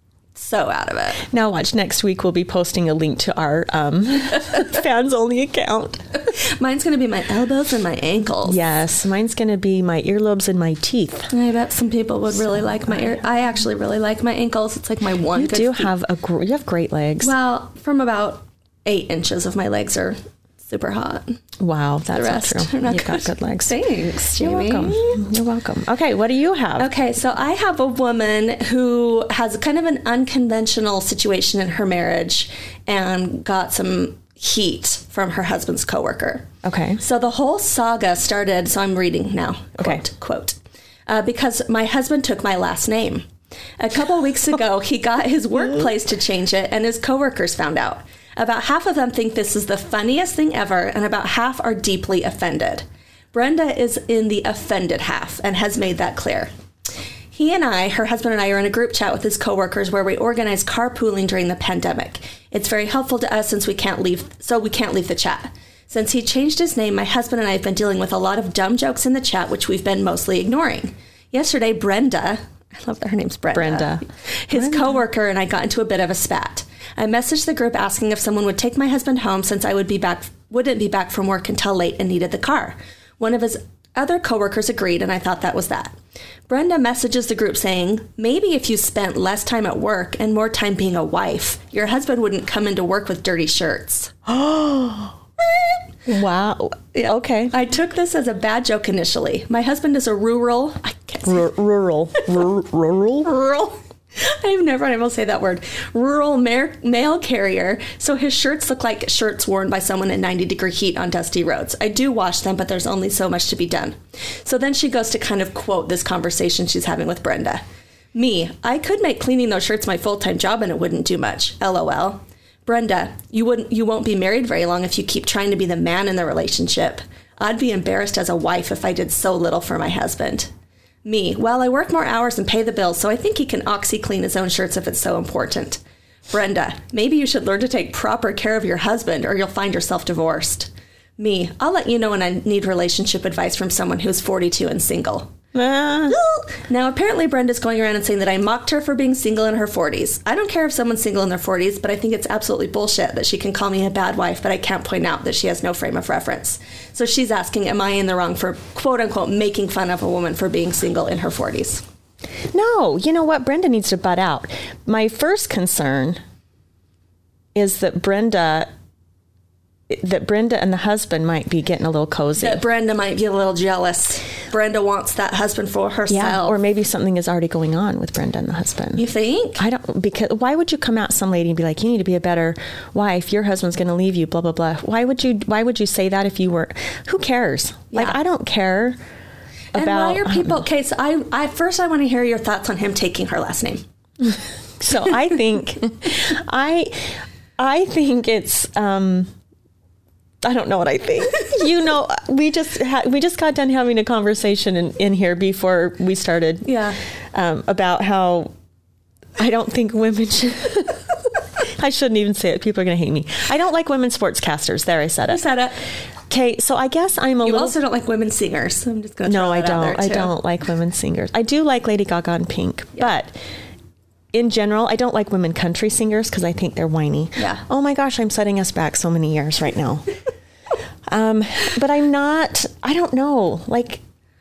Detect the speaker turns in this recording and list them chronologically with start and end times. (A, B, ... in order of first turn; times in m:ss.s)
0:00.4-0:01.2 A
0:01.3-0:06.0 B
0:06.3-0:08.6 A
0:08.4-0:11.3 B
0:11.3-0:15.9 A
0:12.3-0:13.2 B
0:15.3-0:17.3 B
0:17.2-0:21.4 A
0:21.6-0:23.8 B
0:22.1-0:25.2 A
0:24.4-0:26.9 B
0:26.8-0:36.5 A
0:36.6-0:37.0 B
0:37.0-0:43.3 A
0:43.8-0:56.5 A
0:57.3-1:26.0 A
1:13.5-1:15.0 B
1:26.5-1:34.2 A
1:34.3-1:35.2 B
1:36.0-1:37.6 B
1:37.5-1:41.5 A
1:41.2-1:43.3 B
1:43.2-1:57.6 A
1:58.1-2:10.5 A
2:11.0-2:25.3 A
2:25.5-2:26.2 B
2:26.1-2:41.8 A
2:42.5-2:46.2 B
2:47.6-2:48.7 B
2:49.9-2:52.6 B
2:52.4-2:56.6 A
2:56.1-2:59.0 B
2:59.0-2:59.6 A
2:59.6-3:09.0 B
3:07.9-3:08.2 A
3:09.7-3:10.7 B
3:09.7-3:13.8 A
3:14.2-3:19.3 B
3:20.4-3:26.8 B
3:26.6-3:27.0 A
3:27.3-3:28.5 B
3:29.4-3:35.4 B
3:35.3-3:35.8 A
3:36.3-3:37.8 B
3:37.4-3:40.3 A
3:39.2-3:43.3 B
3:44.3-3:50.0 B
3:47.4-3:47.6 A
3:51.1-3:54.0 B